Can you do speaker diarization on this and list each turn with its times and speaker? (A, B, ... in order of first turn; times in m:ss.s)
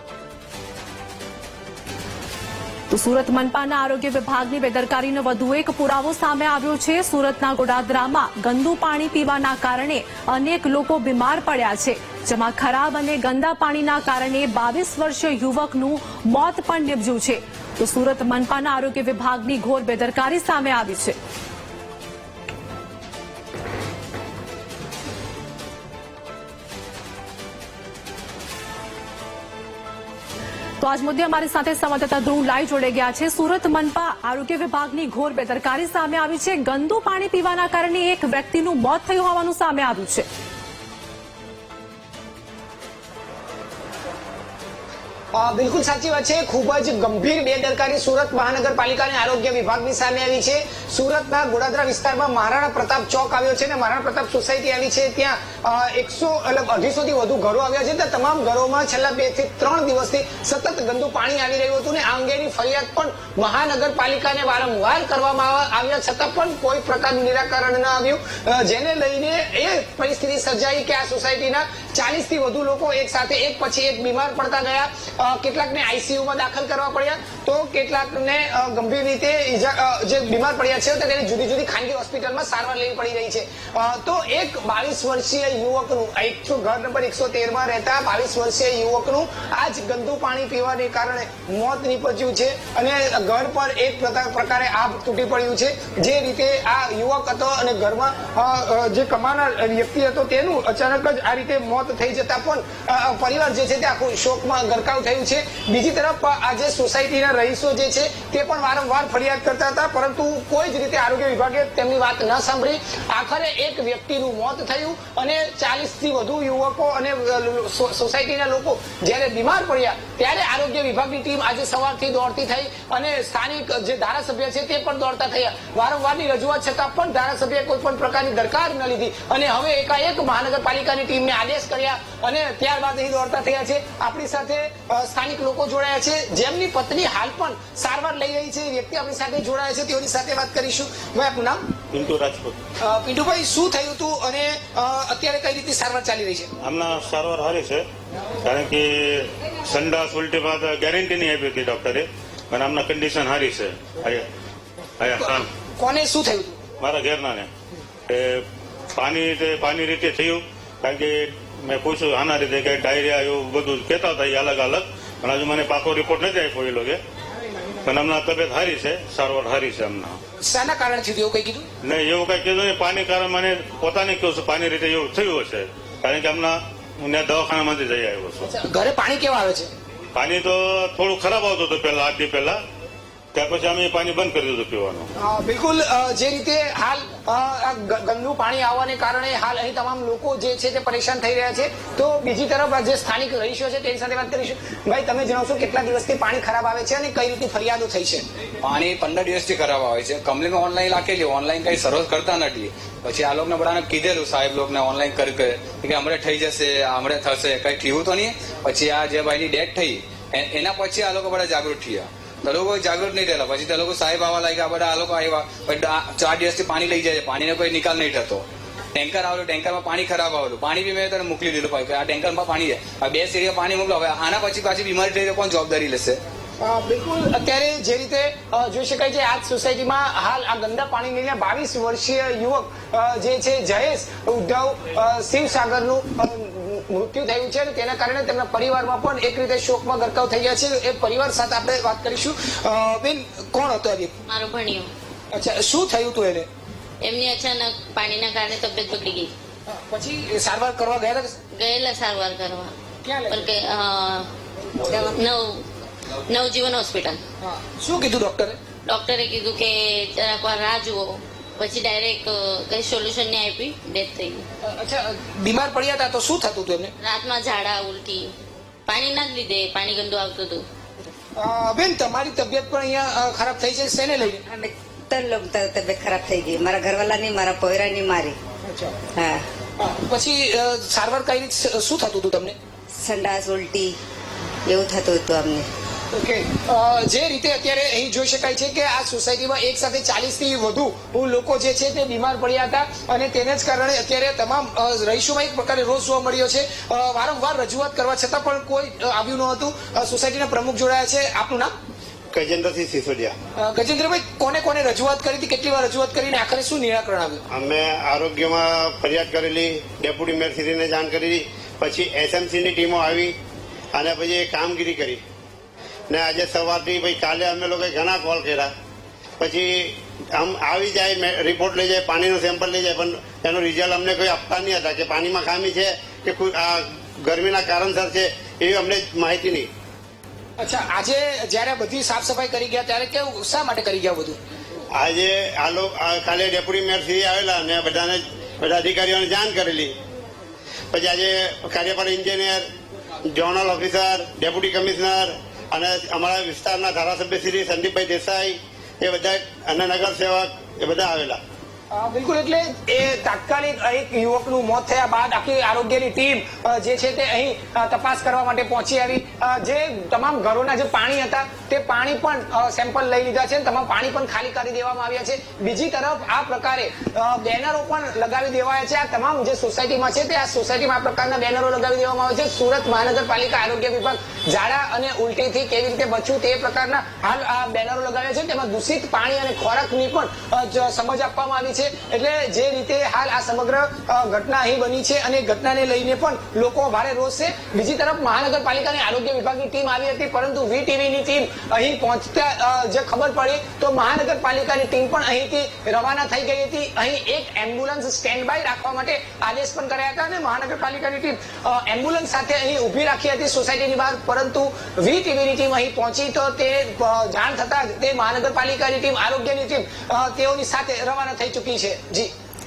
0:02.9-0:21.2 A
0:30.8-0:40.2 A
0:45.3-2:21.6 B
2:21.9-2:22.6 C
2:22.8-2:26.5 B
2:26.6-2:27.8 C
2:28.4-2:34.3 C
2:35.0-2:35.5 C
2:35.8-2:36.5 B
2:36.8-2:37.5 C
2:38.1-2:47.0 C
2:47.8-2:50.2 C
2:50.5-2:51.6 B
2:51.8-2:58.5 C
2:58.5-2:59.7 B
3:00.1-3:02.6 C
3:03.3-3:05.1 C
3:05.2-3:18.2 B
3:18.6-3:46.2 D
3:46.6-4:04.1 B
4:04.3-4:04.9 E
4:05.3-4:06.5 B
4:07.0-4:09.3 E
4:09.7-4:11.3 B
4:11.5-4:12.7 E
4:13.0-4:13.4 B
4:13.3-4:14.3 E
4:14.9-4:15.6 E
4:16.3-4:17.2 E
4:17.4-4:18.6 B
4:18.8-4:24.4 E
4:24.6-4:26.9 B
4:27.0-4:28.3 E
4:28.8-4:30.6 E
4:31.4-4:34.4 B
4:34.4-4:38.4 F
4:39.1-4:39.4 F
4:39.8-4:42.5 B
4:42.9-4:44.0 F
4:44.6-4:45.7 F
4:46.1-5:01.7 B
5:02.3-5:03.3 G
5:03.6-5:07.4 B
5:07.5-5:13.4 G
5:13.9-5:15.2 G
5:16.1-5:18.7 G
5:19.4-5:29.7 G
5:30.6-5:34.4 B
5:34.9-5:39.9 G
5:40.9-5:42.7 G
5:43.2-5:51.4 G
5:51.9-6:52.3 B